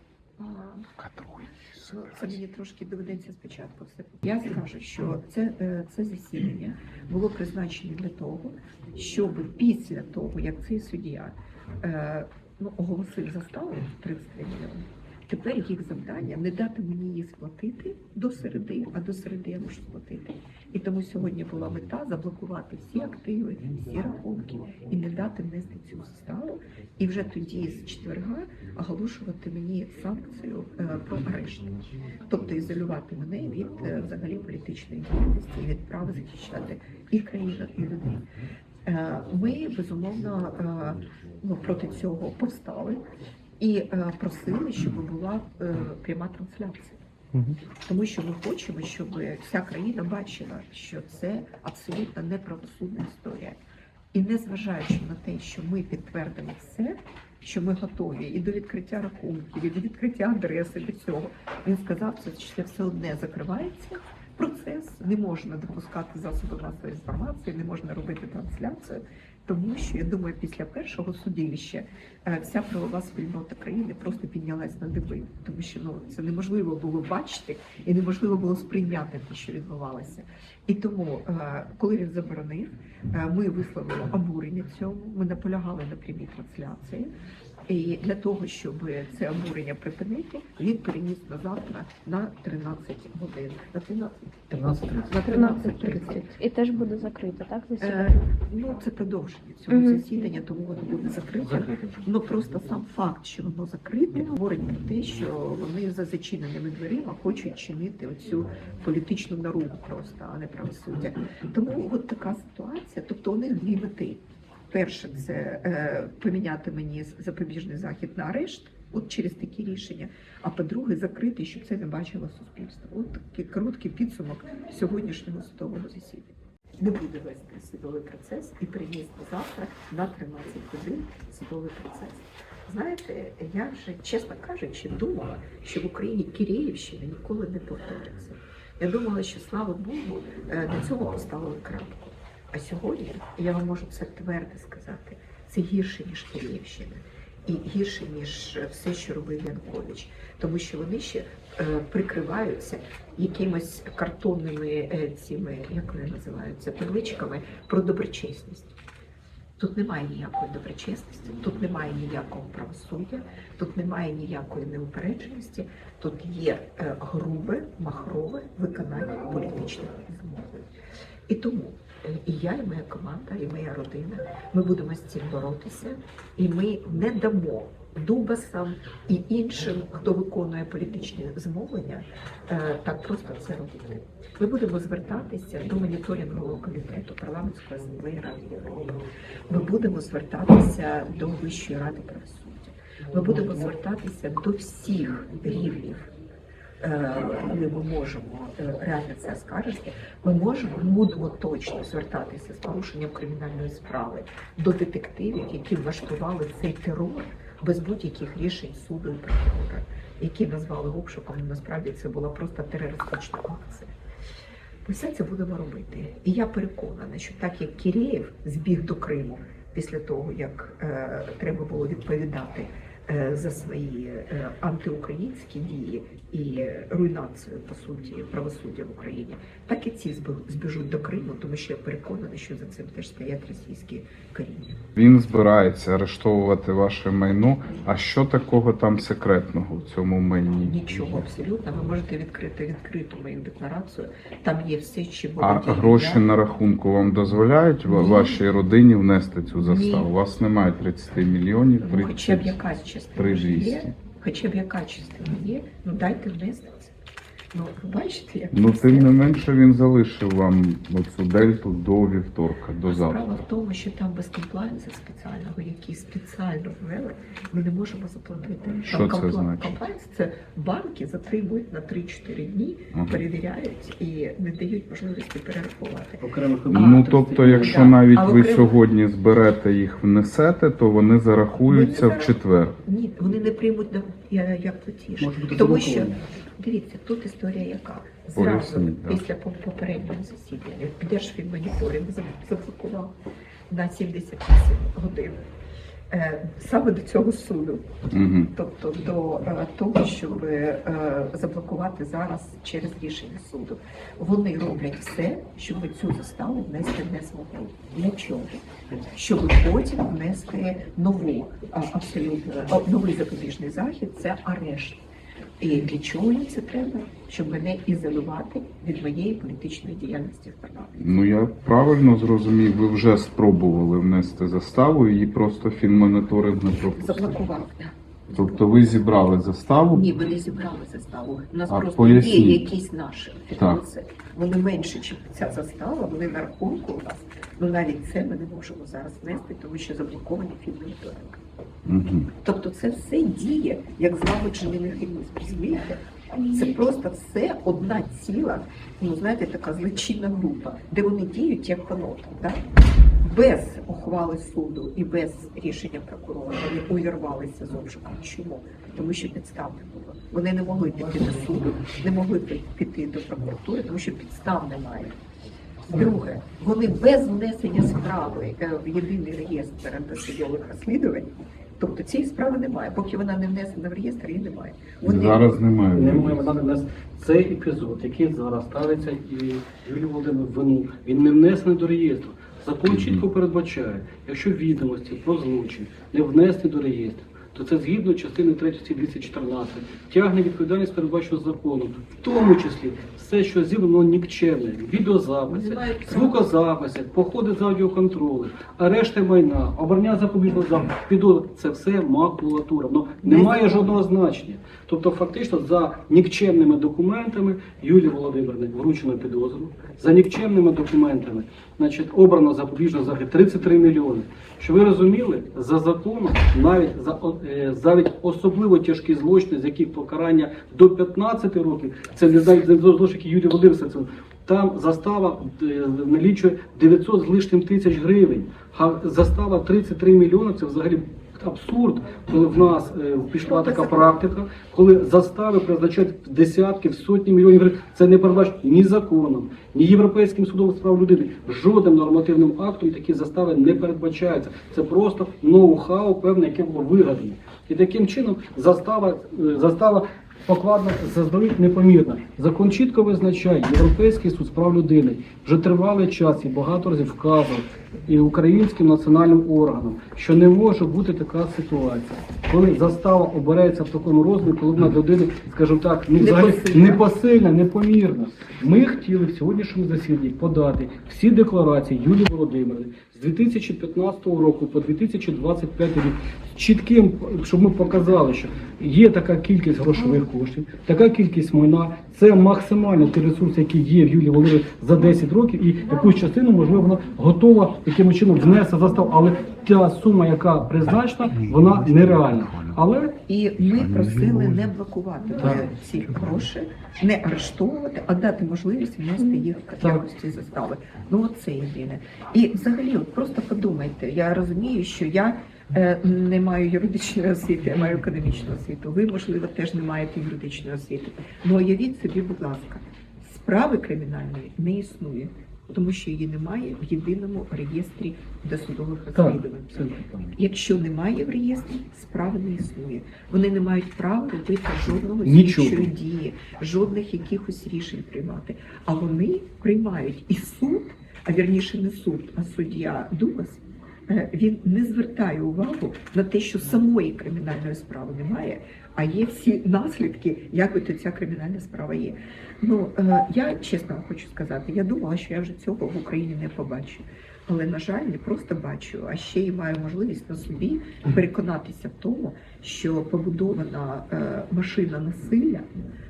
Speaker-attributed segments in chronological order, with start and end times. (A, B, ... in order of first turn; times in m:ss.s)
0:00.4-0:00.9 A
0:01.0-0:01.4 B
0:01.8-0:31.7 A
0:01.9-0:02.4 B
0:32.3-0:38.3 A
0:38.9-0:43.0 A
0:43.6-0:47.0 A
0:47.8-0:53.6 A
0:54.1-1:27.1 A
1:27.7-1:36.4 A
1:34.5-1:35.1 C
1:35.3-1:38.1 D
1:37.8-2:38.8 A
1:39.7-1:40.1 D
1:41.4-1:42.0 C
2:39.6-2:50.7 A
2:51.3-3:16.1 A
3:16.8-3:33.9 A
3:34.8-3:54.8 A
3:55.0-4:00.9 B
4:00.6-4:06.2 A
4:05.4-4:12.6 B
4:07.9-4:08.4 A
4:09.6-4:10.1 A
4:11.8-4:16.9 A
4:13.2-4:13.9 B
4:17.5-4:19.2 A
4:18.5-4:23.2 B
4:22.8-4:38.8 A
4:28.9-4:29.8 B
4:32.9-4:33.2 B
4:36.2-4:37.9 C
4:36.7-4:42.8 B
4:41.6-4:53.2 A
4:45.2-4:46.2 C
4:48.4-4:49.2 B
4:53.7-4:55.4 A
4:56.1-4:57.9 A
4:58.1-4:58.5 B
4:58.4-5:08.6 A
5:09.1-5:15.1 A
5:15.6-5:21.3 A
5:21.0-5:27.4 B
5:26.9-5:28.9 A
5:28.3-5:30.1 B
5:29.9-5:41.4 A
5:31.7-5:32.7 B
5:41.9-5:42.3 B
5:42.4-5:52.6 A
5:53.2-6:05.2 A
6:05.9-6:15.6 A
6:15.0-6:16.4 B
6:15.9-8:13.2 C
6:22.9-6:23.2 B
6:35.5-6:36.4 A
6:43.2-6:44.0 A
7:13.4-7:14.2 A
7:46.2-7:47.0 A
8:13.3-9:15.7 A
8:39.2-8:40.3 C
8:45.2-8:45.9 C